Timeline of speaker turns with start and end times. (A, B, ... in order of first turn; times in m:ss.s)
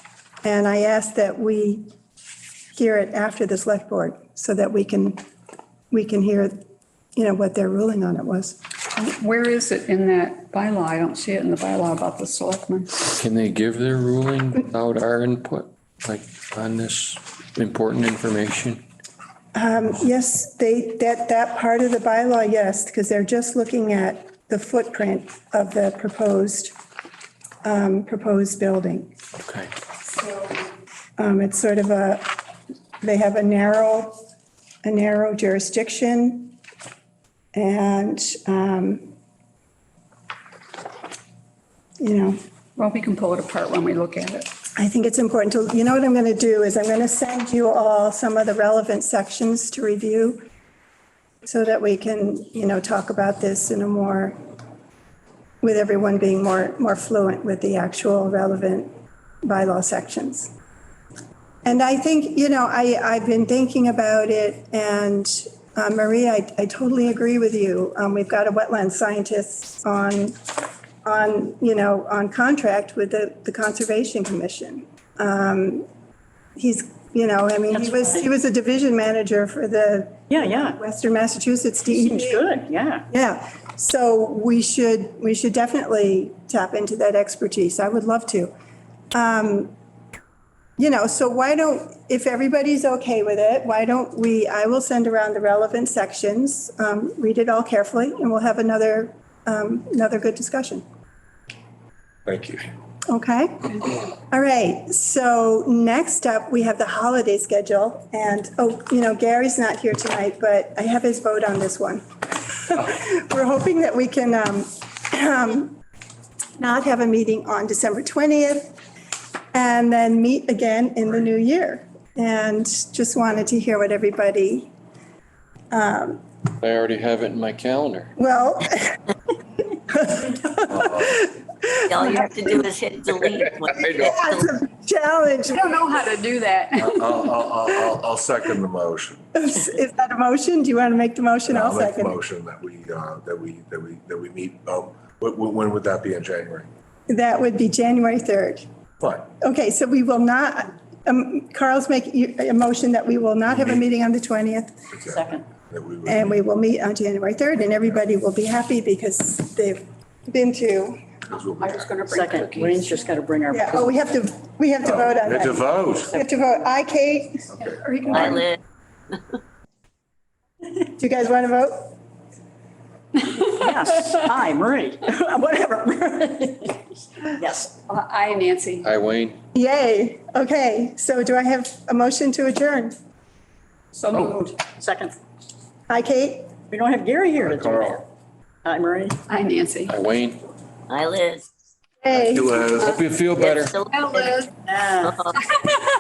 0:00.4-0:01.8 A
0:02.8-0:05.2 A
0:05.9-0:06.6 A
0:07.2-0:08.6 A
0:09.0-0:13.1 B
0:13.1-0:18.8 C
0:19.6-0:26.7 A
0:27.6-0:29.1 A
0:29.4-0:29.7 C
0:30.1-0:30.6 A
0:31.2-0:32.4 A
0:33.0-0:34.2 A
0:34.8-0:36.6 A
0:37.5-0:39.1 A
0:42.0-0:42.4 A
0:42.8-0:44.5 B
0:44.8-0:50.4 A
0:51.4-0:54.4 A
0:55.6-0:58.9 A
0:59.4-1:00.5 A
1:01.6-1:10.4 A
1:11.0-1:15.9 A
1:16.6-1:22.5 A
1:17.7-1:18.0 D
1:20.3-1:20.8 D
1:21.9-1:23.0 D
1:23.1-1:28.5 A
1:29.1-1:29.7 A
1:30.8-1:40.8 A
1:42.3-1:42.6 E
1:43.1-1:55.8 A
1:56.6-1:58.7 A
1:59.5-2:04.7 A
2:05.7-2:06.2 A
2:06.6-2:08.1 C
2:08.2-2:09.0 A
2:09.9-2:12.5 A
2:11.9-2:14.4 F
2:13.7-2:14.3 C
2:13.8-2:15.8 A
2:15.5-2:17.1 B
2:16.8-2:19.3 E
2:19.4-2:22.2 A
2:21.5-2:26.7 E
2:27.1-2:28.7 A
2:29.0-2:29.3 E
2:29.4-2:34.8 A
2:35.0-2:36.4 E
2:35.1-2:35.4 D
2:36.1-2:41.0 A
2:41.3-2:42.0 E
2:41.6-2:43.0 B
2:42.1-2:43.9 D
2:42.5-2:43.0 F
2:43.5-2:48.5 A
2:44.8-2:46.2 E
2:48.2-2:48.5 F
2:51.0-2:51.9 A
2:53.5-2:54.2 F
2:53.6-2:56.5 D
2:57.7-2:58.9 B
2:58.8-2:59.4 C
2:59.6-3:03.0 A
3:04.0-3:04.5 B
3:04.4-3:05.2 D
3:05.9-3:06.5 A
3:06.7-3:08.1 D
3:07.6-3:08.0 E
3:08.7-3:09.1 D
3:09.3-3:10.0 B
3:09.9-3:10.4 C
3:10.9-3:11.5 F
3:12.0-3:12.6 A
3:12.1-3:13.0 E
3:12.8-3:13.8 C
3:13.4-3:15.4 F
3:13.9-3:14.5 B
3:14.7-3:15.2 D